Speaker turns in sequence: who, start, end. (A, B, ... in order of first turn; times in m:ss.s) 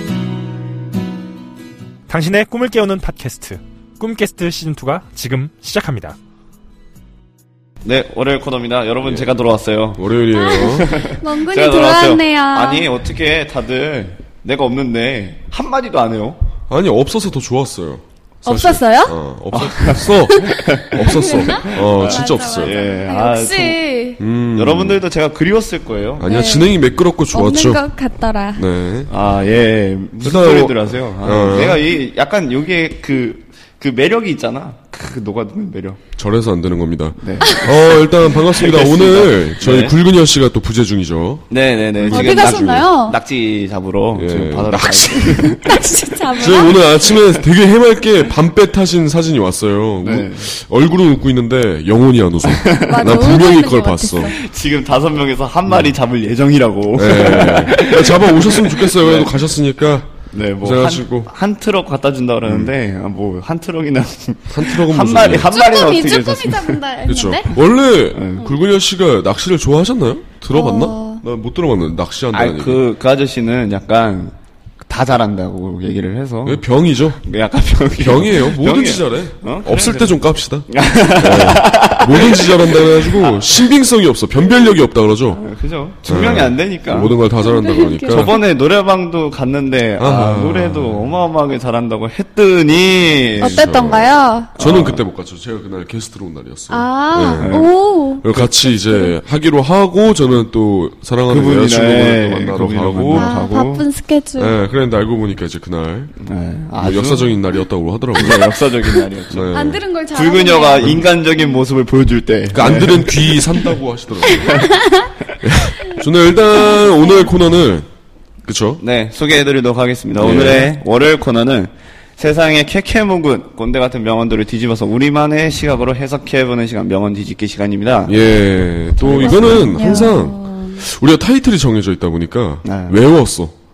0:02.1-0:06.2 A
0:07.8-0:10.0 B
0:09.0-0:09.3 C
0:09.9-0:11.0 C
0:10.3-0:12.9 D
0:10.5-0:16.4 B
0:16.7-0:22.8 C
0:18.4-0:19.2 D
0:19.5-0:23.8 B
0:20.3-0:24.2 D
0:24.2-0:25.0 C
0:24.5-0:26.4 B
0:26.2-0:27.8 C
0:26.2-0:26.8 D
0:27.3-0:28.7 D
0:28.6-0:29.1 C
0:29.1-0:36.0 B
0:30.2-0:31.9 C
0:36.2-0:42.8 C
0:37.2-0:37.7 B
0:38.3-0:39.9 B
0:41.5-0:45.6 B
0:42.1-0:43.2 D
0:44.1-0:45.7 C
0:45.4-0:47.1 D
0:46.3-0:54.3 C
0:50.0-0:50.5 B
0:52.4-0:53.1 B
0:52.8-0:54.3 D
0:54.2-0:59.3 B
0:55.7-0:55.9 C
0:56.9-1:01.3 C
1:00.3-1:06.8 B
1:02.4-1:02.7 C
1:04.5-1:05.5 C
1:05.4-1:07.5 D
1:07.1-1:12.8 C
1:08.1-1:08.5 B
1:10.5-1:11.2 D
1:12.3-1:23.6 B
1:16.4-1:17.2 C
1:17.9-1:25.4 C
1:25.4-1:27.2 B
1:26.0-1:28.4 C
1:27.4-1:28.4 D
1:28.1-1:33.7 B
1:30.0-1:31.1 C
1:33.4-1:34.5 D
1:33.4-1:37.6 C
1:34.6-1:35.0 B
1:36.7-1:39.2 D
1:37.4-1:37.7 B
1:38.2-1:43.4 C
1:41.3-1:43.8 B
1:43.1-1:44.6 D
1:44.4-1:46.1 C
1:46.2-1:47.4 B
1:46.8-1:49.8 C
1:48.1-1:49.6 B
1:49.5-1:51.6 D
1:50.1-1:53.7 B
1:50.8-1:51.0 C
1:52.5-1:54.7 C
1:54.3-1:54.6 B
1:54.4-1:55.1 D
1:55.4-1:57.9 C
1:58.4-1:58.8 C
1:58.8-2:08.2 B
2:00.2-2:00.7 C
2:08.1-2:13.5 C
2:08.9-2:10.1 B
2:09.2-2:10.8 D
2:12.6-2:13.0 B